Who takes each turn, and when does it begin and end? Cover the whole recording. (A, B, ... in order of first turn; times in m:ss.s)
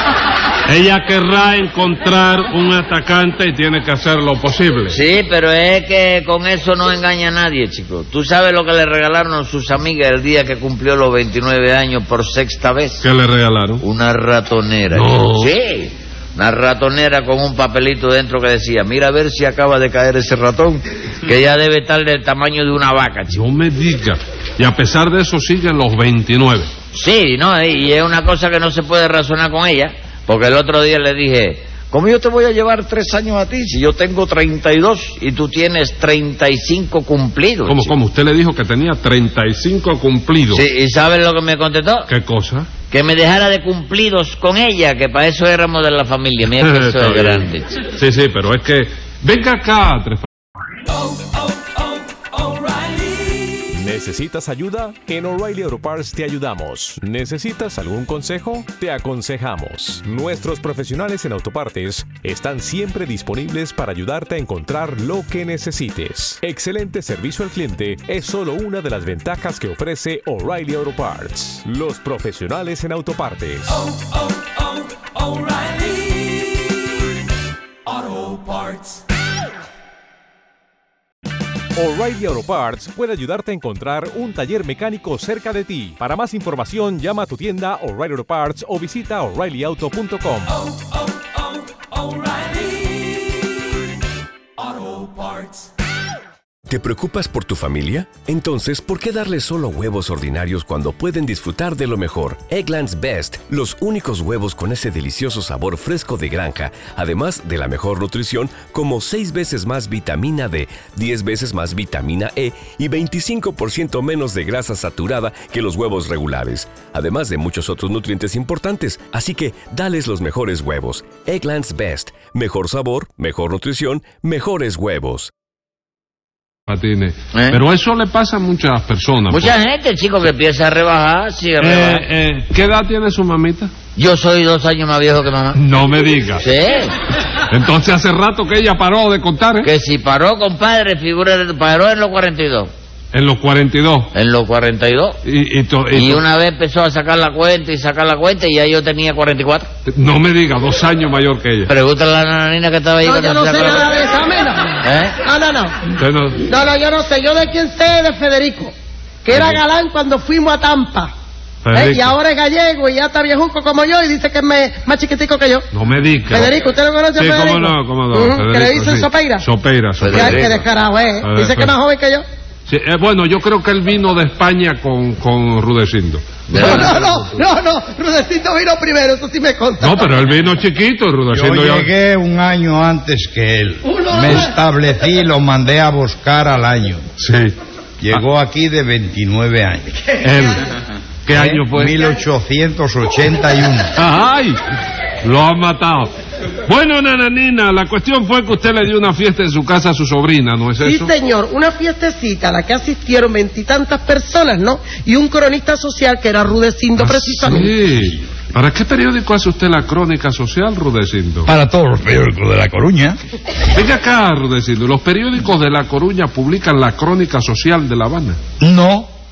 0:00.6-0:05.0 A
0:04.9-0:13.0 B
0:13.0-0:13.8 A
0:13.8-0:23.4 B
0:14.9-0:15.5 A
0:23.3-0:26.7 A
0:26.9-0:37.9 B
0:37.6-0:40.6 A
0:40.5-0:42.1 B
0:42.1-0:42.7 A
0:42.9-0:47.7 B
0:46.5-0:50.2 A
0:53.7-1:13.8 C
1:21.8-1:30.5 C
1:36.7-2:05.3 D
2:06.7-2:09.5 A
2:07.3-2:07.6 B
2:09.3-2:12.0 B
2:11.6-2:13.7 A
2:14.0-2:15.6 B
2:15.5-2:16.4 A
2:16.4-2:16.9 B
2:17.5-2:19.7 A
2:19.6-2:22.7 B
2:23.1-2:24.1 A
2:24.1-2:25.2 B
2:25.2-2:26.2 A
2:25.9-2:29.7 B
2:29.9-2:31.7 A
2:31.7-2:34.0 B
2:33.0-2:35.7 E
2:34.8-2:35.2 B
2:36.0-2:36.4 A
2:36.5-2:41.1 E
2:39.3-2:39.6 A
2:41.6-2:42.2 A
2:41.7-2:45.6 E
2:45.7-2:46.5 A
2:46.3-2:49.4 E
2:47.1-2:50.6 A
2:50.0-2:50.4 B
2:50.0-2:52.2 E
2:51.2-2:51.8 A
2:52.7-2:57.4 A
2:56.5-2:56.9 B
2:56.7-3:00.1 E
2:59.8-3:01.9 A
3:01.3-3:07.0 F
3:07.2-3:07.5 A
3:08.0-3:10.1 F
3:10.2-3:10.7 A
3:11.2-3:11.9 A
3:11.3-3:13.9 F
3:14.0-3:14.5 A
3:15.2-3:16.1 A
3:16.7-3:21.1 A
3:20.8-3:27.7 E
3:26.9-3:31.5 A
3:31.4-3:33.2 F
3:33.7-3:38.4 A
3:38.6-3:39.1 F